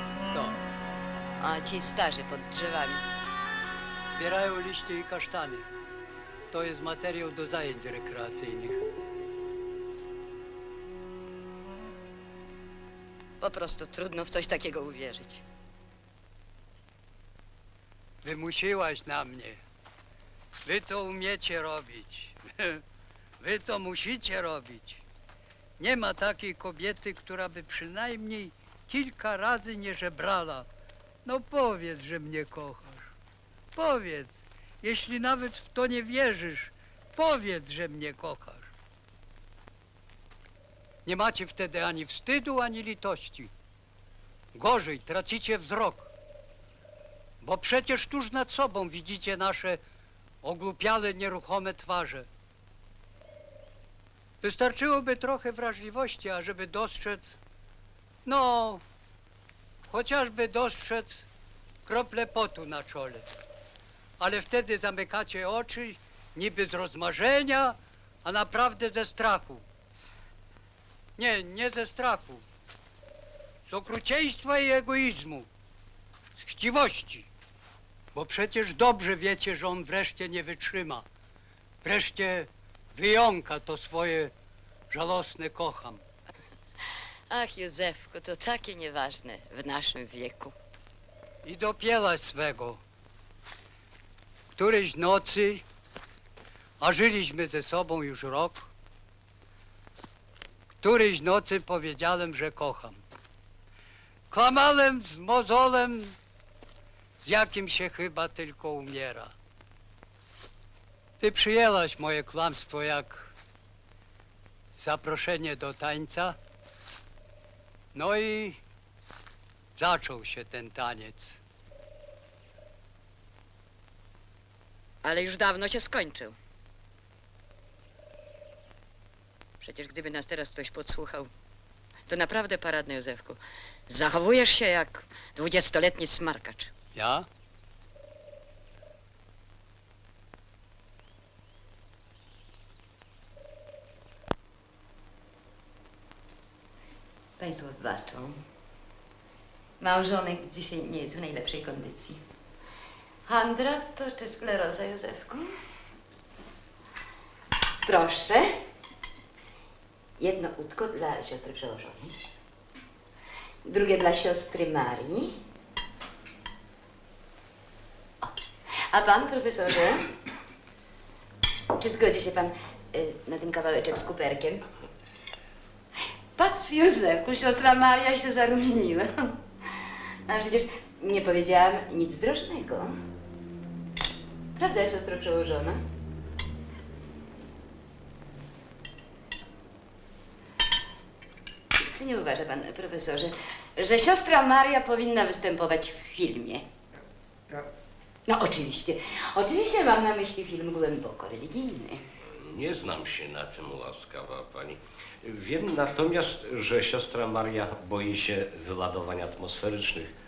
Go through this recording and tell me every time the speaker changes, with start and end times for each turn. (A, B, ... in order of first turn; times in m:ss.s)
0:00.3-0:00.6 A
0:01.4-0:03.0 B
0:04.2-0:05.6 A
0:06.5-0:08.8 A
0:13.4-0:15.4 B
0:18.2-0:19.6 A
0:20.6-0:22.8 A
0:23.4-0:25.0 A
0:25.8-0:30.6 A
0:31.2-0:33.1 A
0:33.7-0:38.7 A
0:41.0-0:43.5 A
0:44.5-0:46.1 A
0:47.4-0:49.8 A
0:50.4-0:52.3 A
0:54.4-0:57.4 A
0:58.2-0:58.8 A
0:59.9-1:01.2 A
1:01.8-1:03.2 A
1:04.2-1:09.6 A
1:11.2-1:12.4 A
1:13.7-1:15.5 A
1:16.4-1:17.3 A
1:18.1-1:21.0 A
1:21.8-1:24.3 A
1:24.9-1:26.0 A
1:27.3-1:30.5 B
1:31.4-1:32.8 A
1:34.5-1:35.6 A
1:36.8-1:38.7 A
1:40.8-1:43.0 A
1:44.3-1:46.2 A
1:47.2-1:49.3 A
1:51.2-1:53.3 A
1:54.8-1:56.4 A
1:57.9-1:58.6 A
1:59.8-2:01.4 A
2:05.0-2:06.4 B
2:09.6-2:11.3 B
2:12.1-2:16.7 B
2:16.9-2:17.3 A
2:27.4-2:28.4 B
2:29.8-2:32.2 B
2:33.2-2:35.5 B
2:37.8-2:38.5 B
2:40.2-2:42.2 B
2:43.6-2:45.4 B
2:48.9-2:50.1 B
2:51.8-2:54.6 B
2:56.3-2:59.4 B
3:00.2-3:03.0 B
3:04.6-3:05.8 B
3:11.7-3:16.6 B
3:18.3-3:22.0 B
3:22.3-3:30.1 C